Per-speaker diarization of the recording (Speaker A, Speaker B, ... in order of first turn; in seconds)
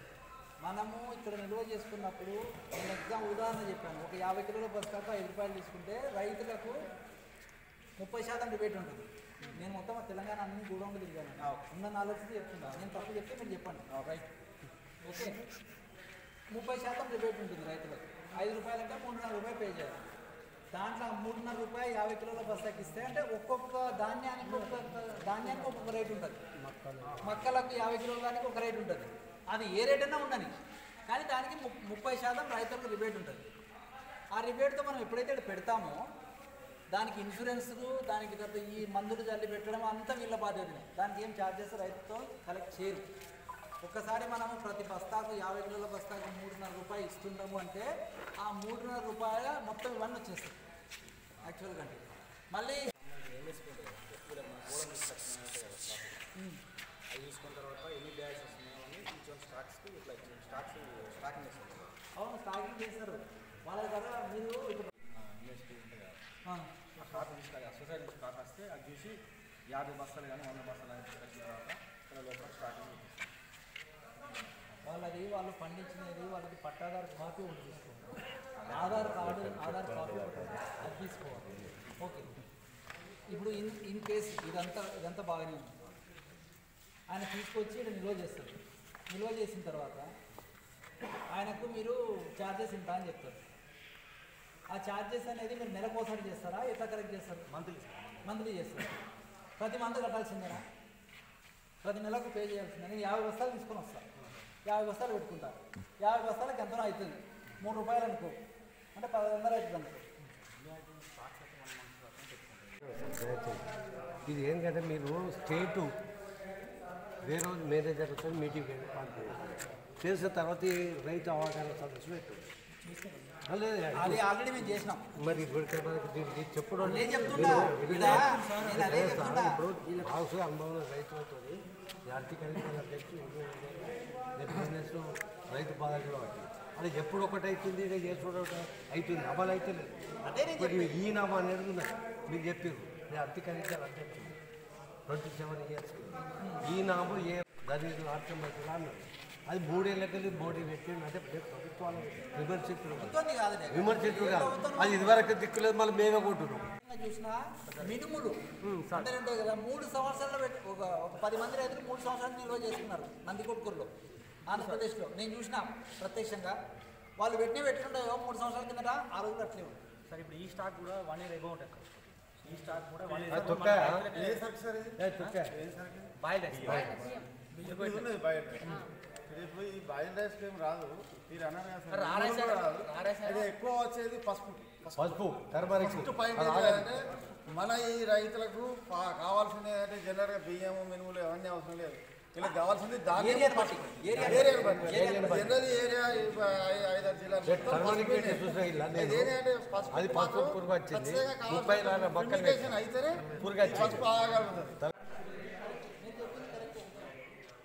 Speaker A: 0.6-6.8, 8.0-13.8, 15.0-15.4, 16.5-20.0, 20.7-26.4, 27.2-30.5, 31.1-33.4, 34.3-36.0, 36.9-43.0, 43.8-47.9, 48.4-50.5, 51.4-52.9, 62.1-64.9, 66.5-67.2, 74.8-82.3, 83.3-85.8, 87.1-88.5, 89.1-90.1, 91.3-93.4, 94.7-97.4, 98.2-98.9, 99.6-100.6, 101.8-104.0, 104.6-108.3, 108.9-110.0, 123.9-125.1, 126.8-129.6, 140.2-141.0, 146.4-146.7, 153.0-155.3, 156.8-163.9, 164.4-166.6, 167.2-169.8, 193.2-195.5, 205.7-207.1
Speaker B: 11.4-11.7, 13.9-14.3, 53.0-56.2, 57.1-61.9, 65.1-66.2, 67.0-73.3, 78.6-79.1, 97.5-98.2, 110.4-112.8, 122.8-123.3, 164.5-164.8, 170.1-174.4, 176.2-178.1, 181.9-183.4
Speaker C: 26.6-27.5, 112.8-113.7, 114.2-116.0, 117.2-119.4, 120.0-122.5, 123.5-124.2, 125.2-144.3, 145.1-153.1, 153.7-156.7, 158.6-159.1, 173.3-174.1, 175.0-175.5, 176.7-177.0, 184.9-186.9, 194.3-195.6, 197.4-199.3, 199.9-204.2
Speaker D: 174.1-175.0, 175.5-176.9, 177.6-185.2, 185.8-204.8